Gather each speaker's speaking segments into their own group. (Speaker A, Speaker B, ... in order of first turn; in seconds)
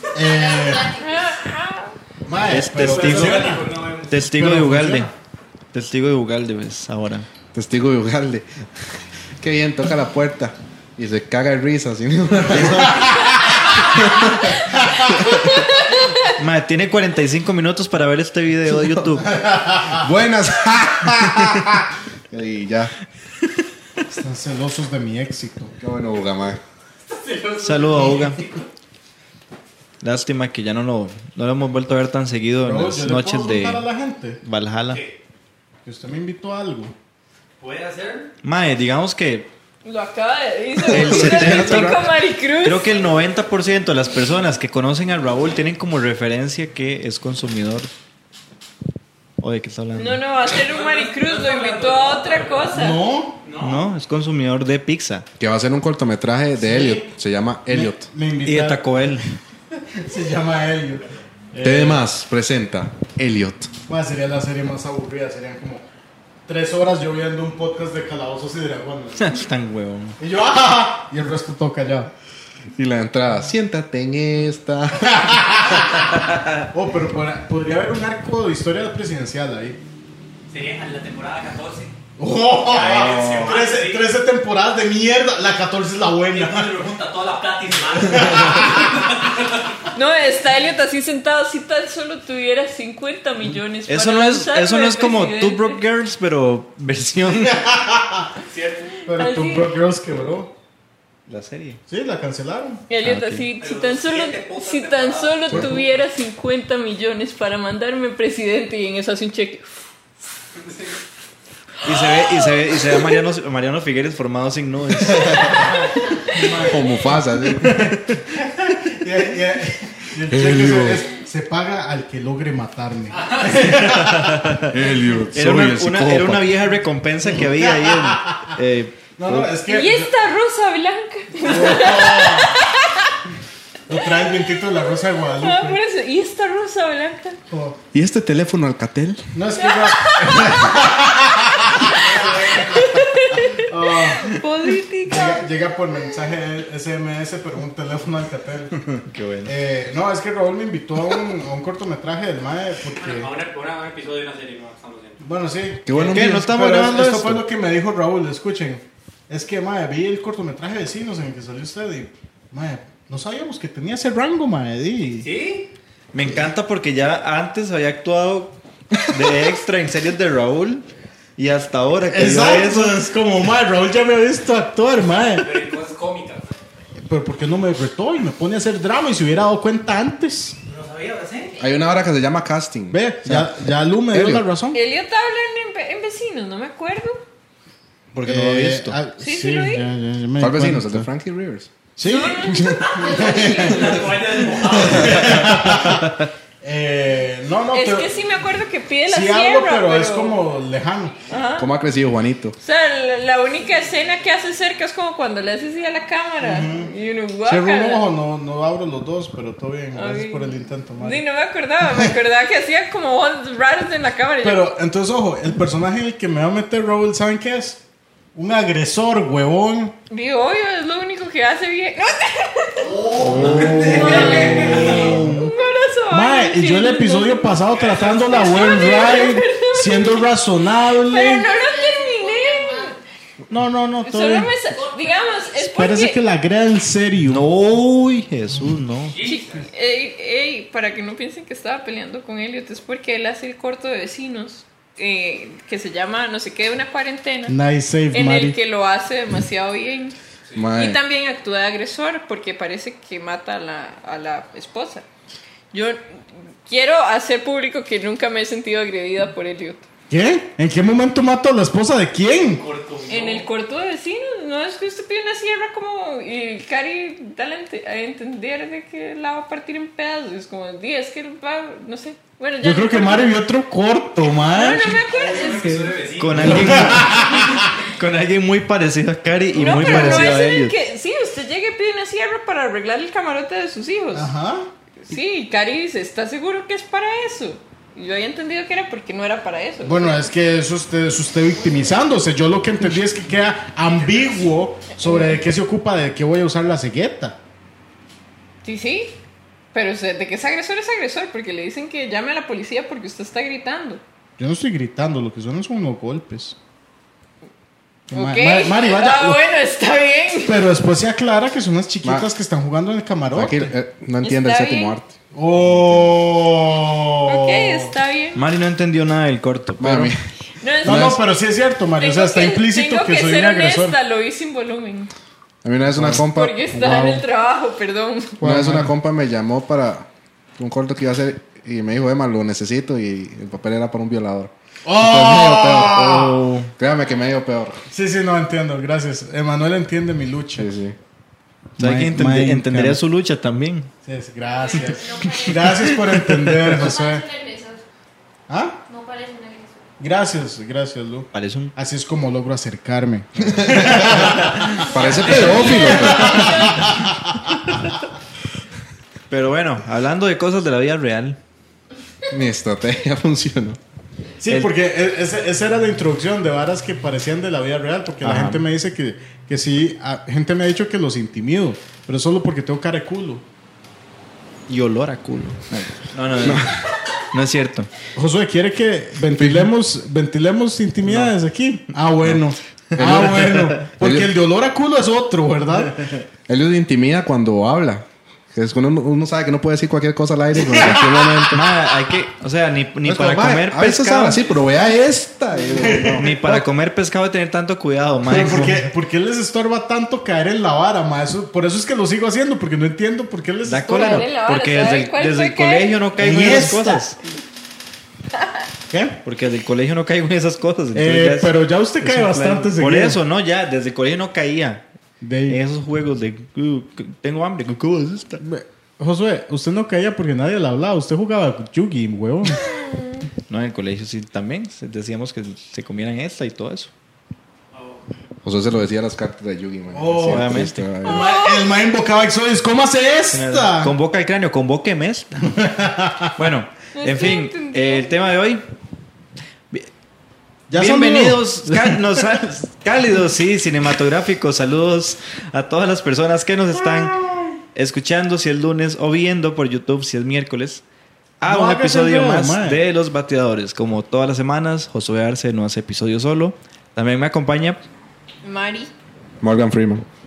Speaker A: 0.1-0.9, 2.2-5.1, 12.9-13.1, 14.8-15.1, 19.3-20.0, 24.1-25.7, 32.6-34.4, 35.8-36.9, 52.7-53.4, 56.6-57.1, 57.7-59.1, 59.8-62.0, 63.9-65.8, 66.5-69.4, 70.2-72.1, 75.1-79.8, 82.2-86.8, 88.2-88.9, 97.3-98.3, 99.0-100.5, 101.9-102.8, 115.4-117.0, 117.6-124.6, 127.2-128.5, 129.2-130.1, 131.4-132.5, 133.9-135.8, 137.5-137.8, 139.3-142.6, 143.5-144.4, 145.0-153.3, 155.2-165.3, 172.1-175.6, 177.1-180.6, 182.9-184.8, 188.3-191.1, 192.0-198.1, 199.1-201.2, 206.4-206.9, 207.4-211.2, 214.4-217.8, 218.3-219.9, 223.2-225.5, 226.1-231.5, 233.5-234.5, 235.7-237.4, 247.5-248.6, 260.1-262.6, 272.6-275.0, 276.4-277.6, 279.6-280.4, 284.1-284.7, 289.8-297.4, 304.4-306.6, 308.1-309.4, 310.4-313.7, 315.3-317.9, 320.8-324.0, 326.7-327.2, 328.4-328.9, 334.9-336.5, 337.9-340.7, 341.8-343.0, 344.0-347.2, 348.5-348.8, 350.0-357.5, 364.4-373.4, 378.1-386.1, 390.6-391.5, 395.7-396.4, 398.2-404.2, 406.2-407.1, 408.9-409.2, 410.9-413.2, 415.2-415.6, 418.4-422.6, 429.9-430.5, 431.0-433.9, 435.5-436.3, 440.7-442.2, 446.7-447.6, 451.4-452.8
Speaker B: 0.2-1.2, 192.9-193.9, 231.2-233.0, 234.7-235.7, 344.4-345.7, 346.8-347.8, 348.8-349.9, 354.9-356.2
Speaker C: 1.0-1.9, 15.2-16.4, 39.8-42.9, 49.9-53.0, 89.9-95.8, 99.1-99.8, 102.9-109.8, 111.8-113.2, 115.3-116.7, 129.7-133.2, 134.1-137.4, 139.6-140.6, 142.7-145.4, 184.7-187.2, 189.2-189.9, 192.0-193.9, 197.7-200.4, 201.2-201.7, 202.6-208.0, 209.9-214.7, 220.1-223.1, 223.8-227.6, 228.3-230.3, 231.0-233.0, 234.0-236.2, 239.2-247.6, 248.1-250.1, 250.7-255.1, 255.7-256.0, 256.6-259.9, 263.1-273.3, 274.5-275.9, 279.6-284.3, 285.0-290.1, 298.6-299.1, 299.7-304.0, 308.1-310.6, 314.2-315.0, 317.2-318.4, 320.6-321.2, 322.0-325.1, 326.3-328.4, 355.2-356.9, 403.9-406.0, 431.0-431.7, 436.9-438.1, 458.4-458.9
Speaker D: 2.4-5.1, 5.7-7.3, 12.5-13.1, 16.2-19.4, 27.6-28.4, 30.0-33.9, 34.4-35.0, 38.4-39.5, 40.9-42.1, 42.6-47.9, 49.4-50.2, 53.6-55.2, 58.4-59.2, 69.2-70.2, 93.9-97.7, 101.3-101.8, 103.0-103.5, 111.8-115.7, 123.9-124.7, 125.3-129.5, 149.1-149.5, 155.9-157.4, 166.1-170.8, 171.4-173.0, 188.1-189.0, 223.2-223.8, 237.3-239.1, 276.2-280.7, 318.3-320.1, 335.9-336.7, 341.8-343.9, 345.6-346.8, 351.3-351.7, 353.9-354.7, 355.3-355.6, 359.3-361.4, 368.2-368.6, 374.7-376.8, 377.3-377.9, 381.0-381.3, 382.9-383.8, 391.5-394.4, 396.1-398.9, 403.6-407.2, 409.2-414.8, 415.5-418.4, 423.5-426.9, 430.2-430.8, 433.3-435.5, 436.4-438.6, 440.7-447.2, 447.7-450.8, 451.4-457.8
Speaker E: 2.7-4.1, 27.1-28.1, 34.9-35.1, 37.6-38.3, 50.4-52.8, 53.4-53.9, 80.5-81.9, 82.6-84.1, 86.3-89.8, 98.4-99.0, 103.6-105.7, 110.6-110.9, 141.9-142.9, 152.9-155.2, 165.2-165.7, 175.3-176.5, 180.7-181.6, 192.5-195.4, 222.9-225.2, 227.6-229.1, 239.1-239.7, 262.5-263.5, 275.0-276.9, 293.9-294.3, 427.7-428.0
Speaker F: 7.5-14.7, 20.0-22.9, 25.8-26.6, 40.8-42.1, 55.4-58.1, 61.6-63.7, 72.8-75.6, 105.5-105.7, 116.5-118.0, 120.3-121.1, 124.6-126.5, 137.9-139.3, 155.8-156.8, 181.6-183.5, 184.1-184.4, 190.4-191.7, 192.5-192.9, 194.8-195.1, 201.6-202.6, 250.5-251.0, 312.0-312.3, 313.3-316.1, 319.8-320.2, 320.8-321.2, 325.6-326.6, 328.4-336.2, 336.8-337.8, 340.6-340.9, 353.4-356.8, 362.3-363.8, 376.4-376.8, 383.0-384.3, 386.5-391.7, 393.0-396.6, 428.4-431.3, 459.4-460.0